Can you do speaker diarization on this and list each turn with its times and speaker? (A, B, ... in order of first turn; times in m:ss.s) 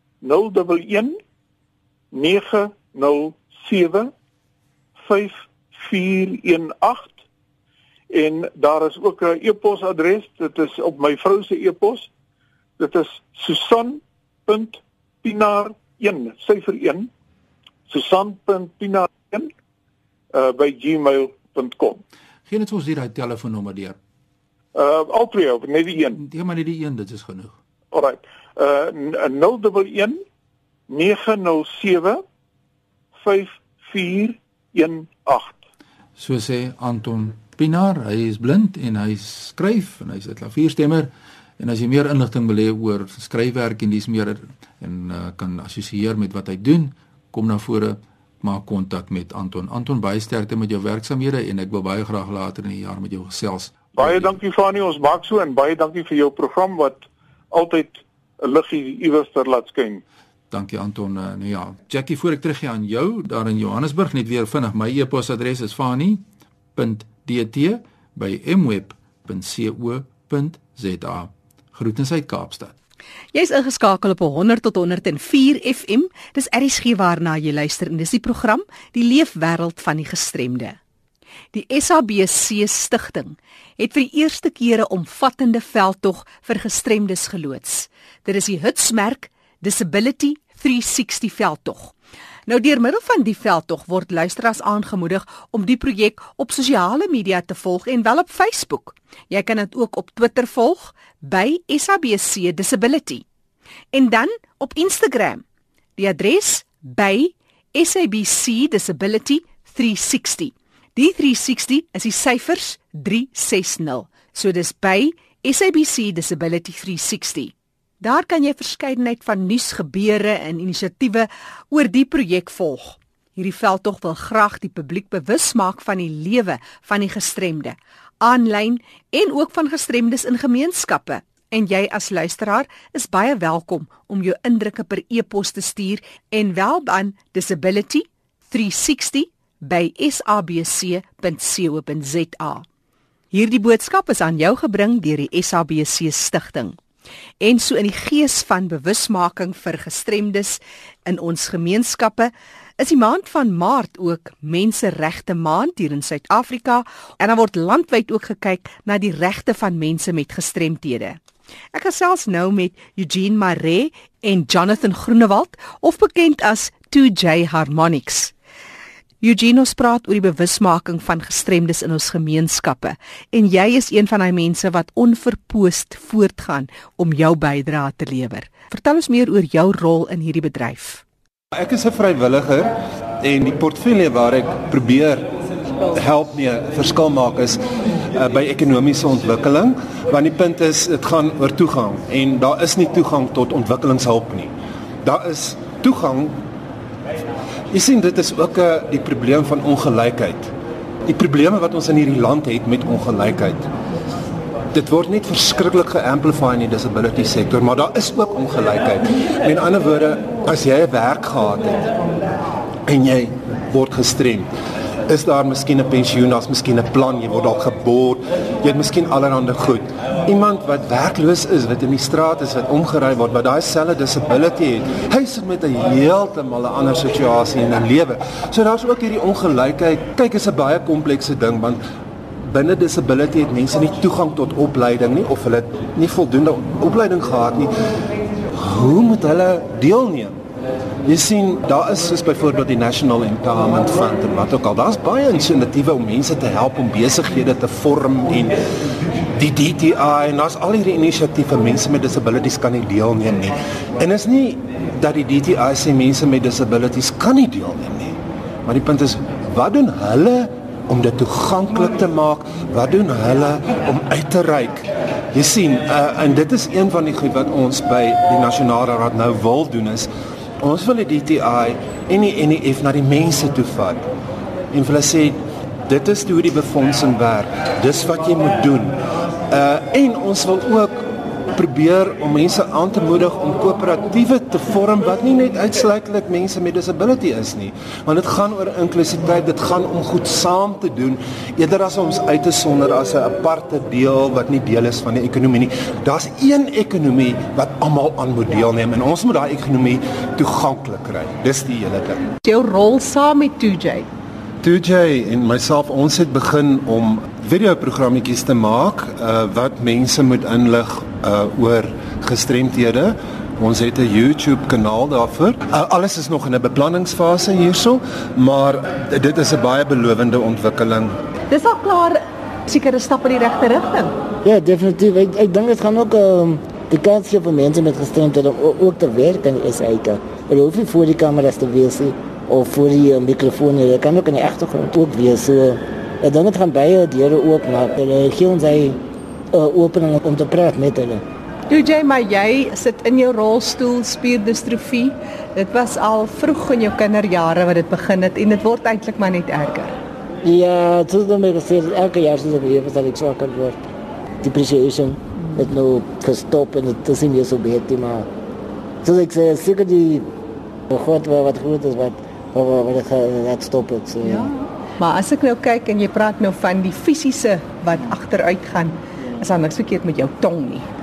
0:00.2-0:01.2 A
0:02.1-0:04.1 A
0:05.0-0:07.2 A
0:08.1-0:12.1 A
0:12.8-0:17.1 A
0:17.9-0:19.5 A
0:20.3-0:22.0 A
0:22.5-0:24.0 B
0:24.8-0:26.2 A
0:26.2-0:27.6 B
0:27.9-0:30.2 A
0:30.9-0:32.2 A
0:33.2-0:35.6 A
0:36.2-0:54.4 B
0:54.0-1:00.0 A
1:00.5-1:06.2 B
1:06.8-1:12.7 B
1:13.3-1:20.8 C
1:21.5-1:31.9 C
1:32.5-1:43.2 C
1:43.9-1:45.4 C
1:46.0-2:22.6 C
2:23.3-2:26.8 C
2:27.4-2:41.2 C
2:41.7-2:48.3 C
2:49.2-3:01.0 C
3:01.5-3:05.3 D
3:05.9-3:07.6 D
3:08.1-3:14.5 D
3:15.0-3:16.3 D
3:17.7-3:20.5 D
3:21.1-3:23.7 D
3:24.7-3:31.9 D
3:32.9-3:34.5 D
3:35.1-3:51.8 D
3:52.4-3:57.7 D
3:58.5-4:00.4 D
4:01.0-4:08.6 D
4:09.3-4:30.1 D
4:30.6-4:34.0 D
4:34.7-4:39.0 D
4:39.5-5:02.3 D
5:02.4-5:04.1 C
5:04.6-5:21.1 D
5:21.5-5:24.1 C
5:24.4-5:39.0 E
5:39.5-5:41.2 E
5:41.7-5:49.9 C
5:50.4-5:53.8 E
5:54.4-5:58.3 E
5:59.0-6:00.3 E
6:00.9-6:04.5 E
6:04.2-6:10.9 C